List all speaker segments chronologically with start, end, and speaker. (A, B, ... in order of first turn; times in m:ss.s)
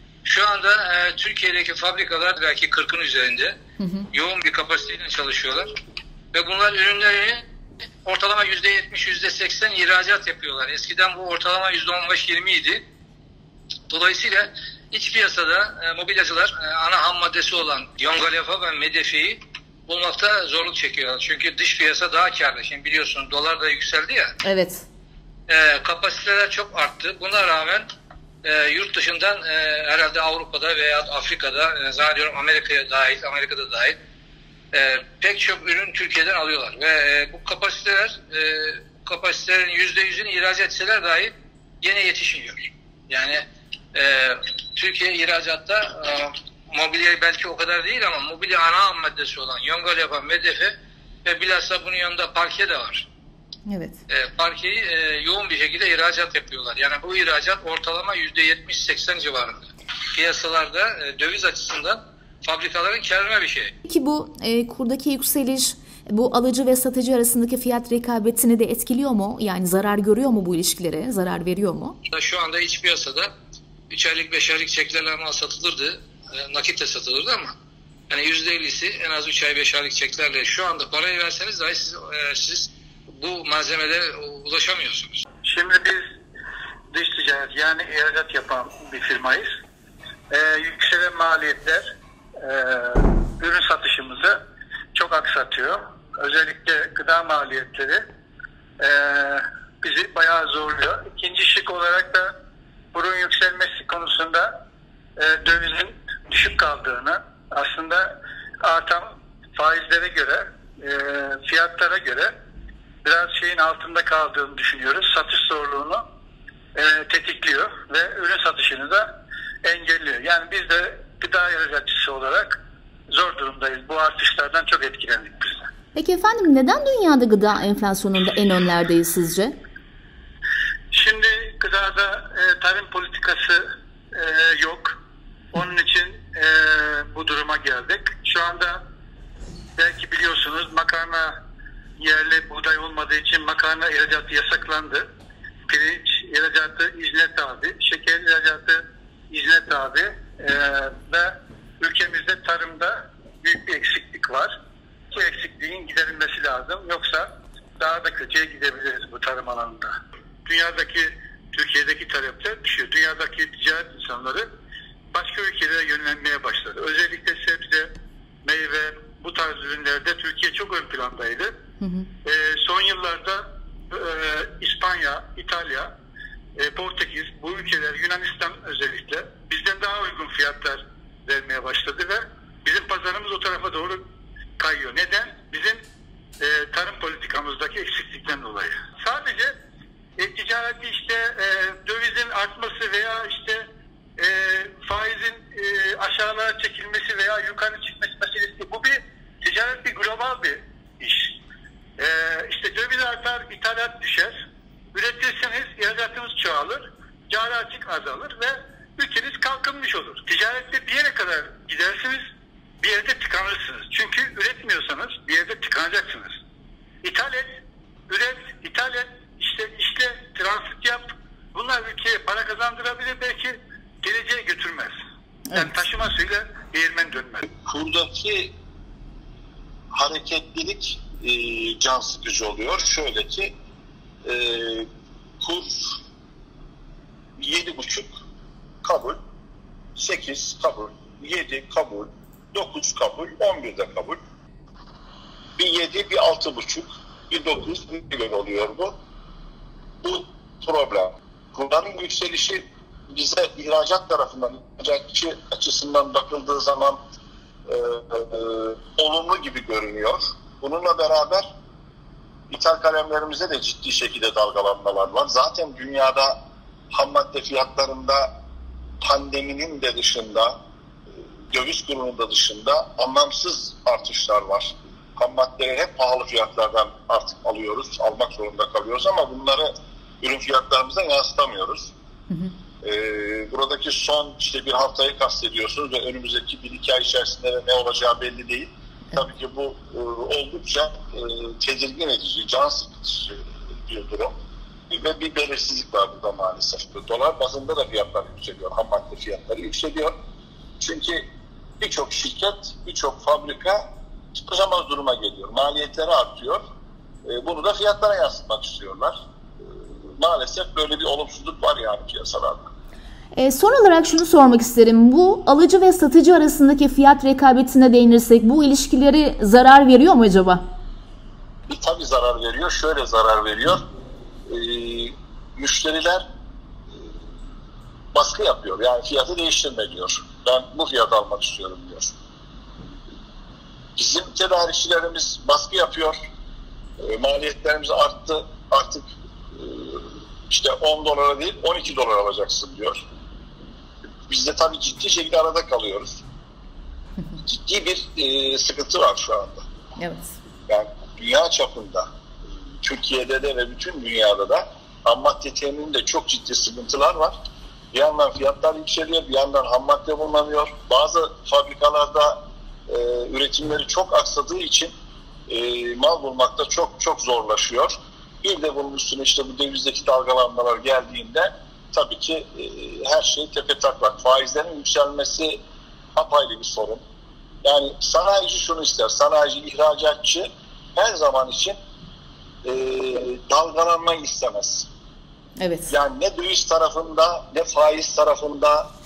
0:00.2-0:03.5 A
0:03.8-0:04.0 B
0:04.1-0:05.7 A
0:06.3-0:07.4 A
0:08.0-0:12.8 A
0:13.9-0:24.3 A
0:24.4-0:24.8 B
0:25.5-0:27.9 A
0:28.4-0:34.0 A
0:34.7-0:53.0 A
0:53.7-0:54.0 B
0:54.1-1:03.7 A
1:03.8-1:12.0 B
1:12.1-1:13.3 A
1:13.9-1:17.5 A
1:18.1-1:25.2 A
1:25.4-1:26.0 C
1:26.9-1:29.4 C
1:30.3-1:31.8 C
1:32.4-1:34.4 C
1:34.9-1:38.0 C
1:38.8-1:42.3 C
1:42.9-1:44.5 C
1:45.2-1:52.3 C
1:53.0-1:56.0 C
1:56.7-1:59.1 C
1:59.6-2:02.6 C
2:03.1-2:05.6 C
2:06.0-2:09.5 B
2:10.9-2:13.6 C
2:14.1-2:15.0 C
2:15.5-2:18.8 C
2:19.8-2:21.3 C
2:22.0-2:25.0 C
2:25.7-2:28.8 C
2:29.3-2:34.5 C
2:35.1-2:37.3 C
2:37.8-2:39.9 C
2:40.4-2:44.5 C
2:45.1-2:47.9 C
2:48.4-2:51.5 C
2:51.8-2:52.1 B
2:52.2-2:55.9 C
2:56.6-3:04.0 C
3:04.6-3:05.8 C
3:06.4-3:09.5 C
3:10.2-3:13.6 C
3:14.2-3:21.4 C
3:22.0-3:24.3 C
3:24.9-3:32.2 C
3:32.8-3:36.4 C
3:37.0-3:37.5 C
3:38.1-3:44.9 C
3:45.5-3:47.5 C
3:47.5-3:48.5 D
3:49.9-3:53.5 D
3:54.2-3:54.9 D
3:55.4-3:55.8 D
3:57.4-3:58.1 D
3:58.8-3:59.2 D
4:00.0-4:04.2 D
4:05.6-4:08.9 D
4:10.0-4:17.0 D
4:17.7-4:21.5 D
4:22.5-4:26.4 D
4:26.9-4:28.3 D
4:29.0-4:30.5 D
4:31.5-4:39.7 D
4:40.2-4:41.9 D
4:42.8-4:54.3 D
4:54.9-5:00.1 D
5:00.8-5:01.2 D
5:01.8-5:03.8 D
5:04.3-5:06.6 D
5:07.2-5:09.2 D
5:10.2-5:12.7 D
5:13.3-5:20.6 B
5:21.7-5:23.8 D
5:24.5-5:26.2 D
5:28.1-5:32.1 D
5:34.0-5:36.2 D
5:37.0-5:43.0 D
5:44.3-5:46.2 D
5:47.4-5:49.6 D
5:50.0-5:50.3 B
5:50.7-5:52.1 D
5:52.8-5:57.4 D
5:57.9-6:04.9 D
6:05.5-6:15.6 D
6:16.1-6:17.0 D
6:17.6-6:21.8 D
6:22.6-6:24.9 D
6:25.6-6:25.9 B
6:25.9-6:28.9 D